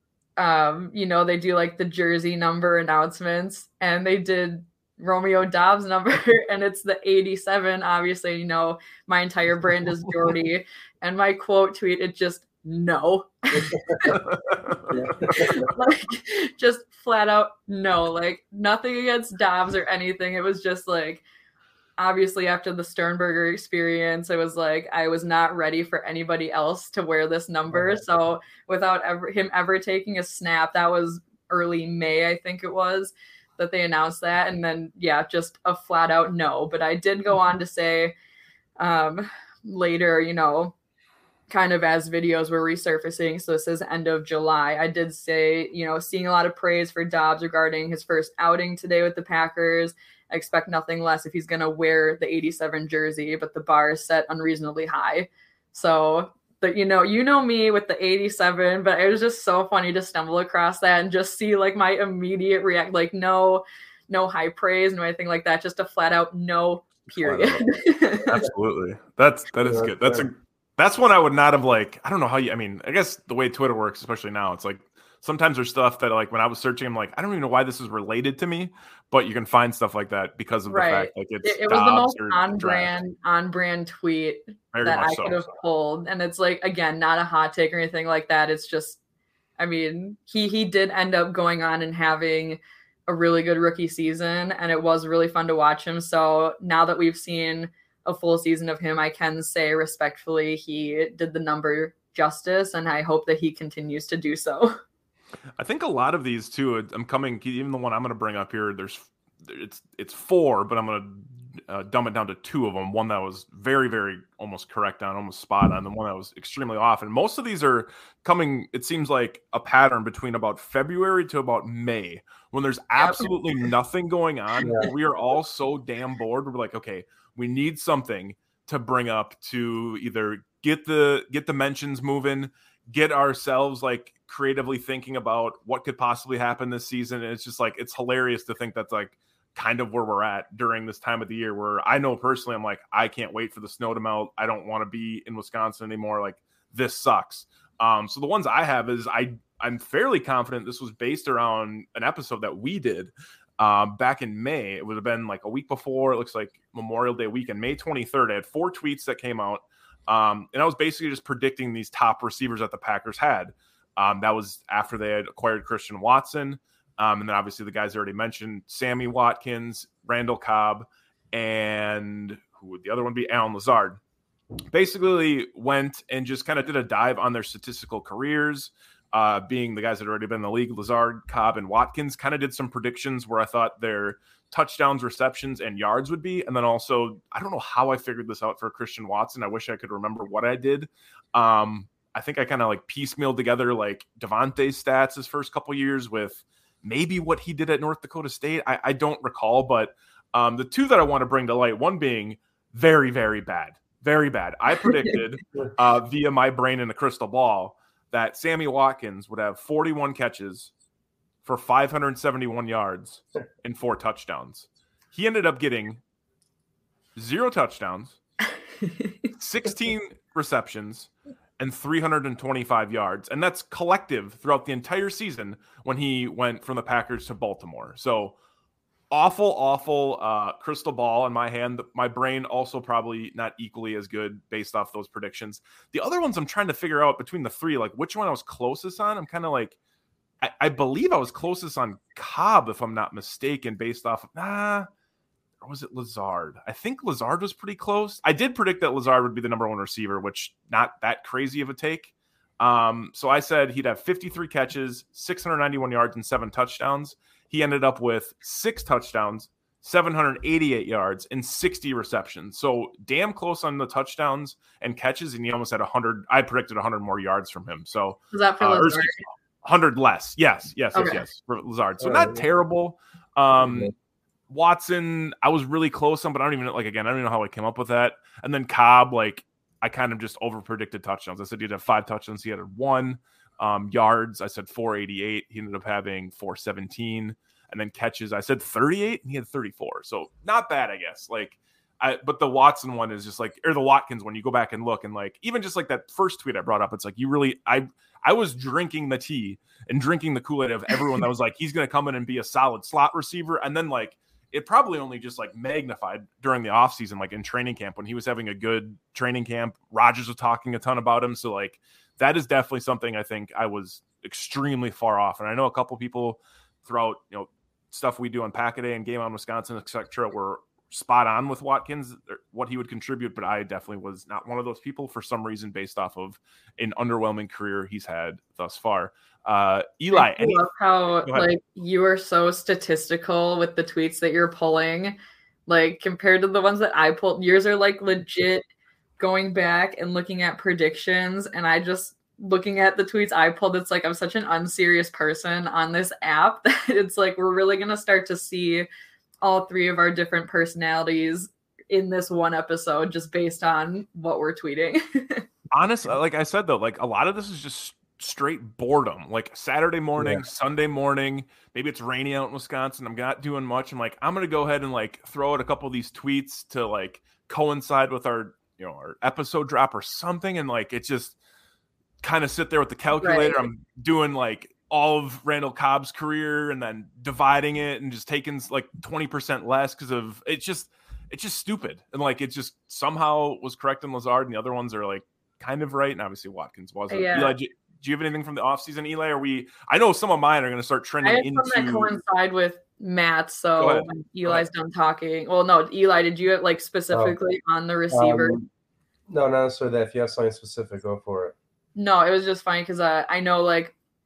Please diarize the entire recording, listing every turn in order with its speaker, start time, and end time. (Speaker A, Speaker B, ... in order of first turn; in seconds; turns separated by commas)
Speaker A: 0.4-14.2, Speaker B: 13.6-14.2, Speaker C: 14.3-15.0, Speaker B: 14.9-15.7, Speaker A: 15.2-21.2, Speaker A: 22.0-38.1, Speaker A: 38.8-40.7, Speaker A: 41.5-68.3, Speaker C: 67.2-67.7, Speaker C: 68.2-82.9, Speaker B: 69.6-70.3, Speaker A: 80.7-89.0, Speaker C: 84.7-85.5, Speaker A: 89.6-104.8, Speaker C: 105.6-174.0, Speaker A: 123.0-123.3, Speaker B: 124.6-124.9, Speaker C: 174.7-210.7, Speaker C: 211.4-216.0, Speaker C: 217.2-218.2, Speaker C: 219.3-228.3, Speaker C: 229.1-239.8, Speaker C: 240.4-244.9, Speaker C: 245.6-273.9, Speaker A: 268.3-269.2, Speaker A: 270.9-271.2, Speaker B: 272.0-272.4, Speaker B: 273.5-273.9, Speaker C: 274.5-330.7, Speaker A: 330.1-335.2, Speaker A: 335.7-338.6, Speaker A: 339.2-348.9, Speaker A: 349.4-355.5, Speaker C: 355.7-371.4, Speaker B: 360.2-360.4, Speaker C: 372.2-392.1, Speaker A: 373.2-373.7, Speaker A: 387.1-387.6, Speaker A: 391.2-398.6, Speaker C: 393.8-394.7, Speaker B: 398.1-398.7, Speaker B: 399.3-401.6, Speaker A: 402.0-403.9